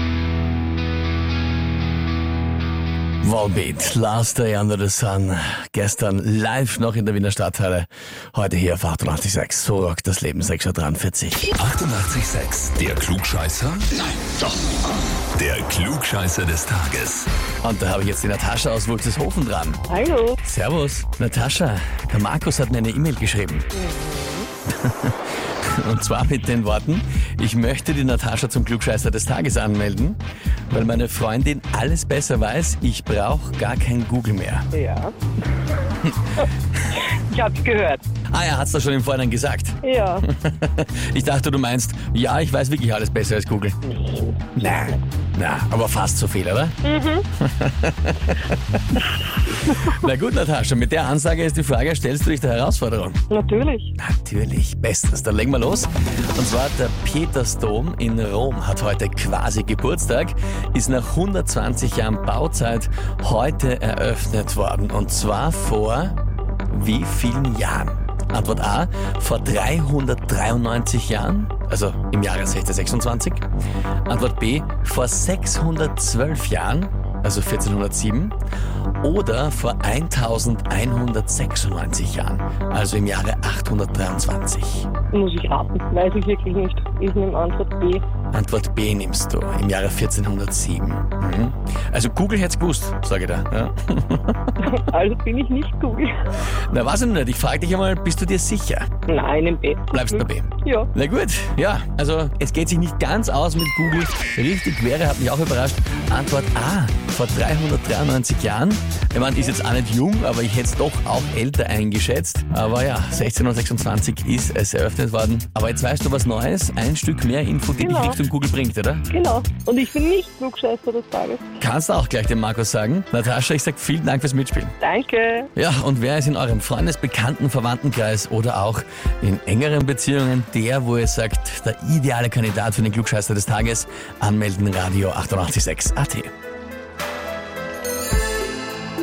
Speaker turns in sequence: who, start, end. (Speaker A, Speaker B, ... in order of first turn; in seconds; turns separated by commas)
Speaker A: 3.2-11.5, Speaker B: 11.6-14.4, Speaker B: 15.3-17.3, Speaker A: 17.6-19.8, Speaker C: 19.9-20.4, Speaker A: 20.4-23.7, Speaker C: 23.7-24.5, Speaker A: 24.7-30.2, Speaker A: 30.7-34.7, Speaker C: 34.7-35.1, Speaker C: 37.1-38.0, Speaker A: 38.3-43.8, Speaker C: 39.8-40.3, Speaker C: 44.0-44.3, Speaker A: 44.5-46.8, Speaker C: 46.8-47.3, Speaker A: 47.4-53.2, Speaker C: 53.3-53.9, Speaker A: 54.0-66.2, Speaker A: 66.7-73.4, Speaker A: 74.1-78.3, Speaker A: 79.0-84.9, Speaker C: 85.1-88.0, Speaker A: 88.3-94.6, Speaker C: 94.6-96.1, Speaker A: 96.5-98.9, Speaker C: 99.1-100.9, Speaker A: 99.9-119.1, Speaker C: 117.8-118.2, Speaker C: 119.1-121.4, Speaker A: 121.6-124.8, Speaker C: 124.8-125.5, Speaker A: 125.5-136.3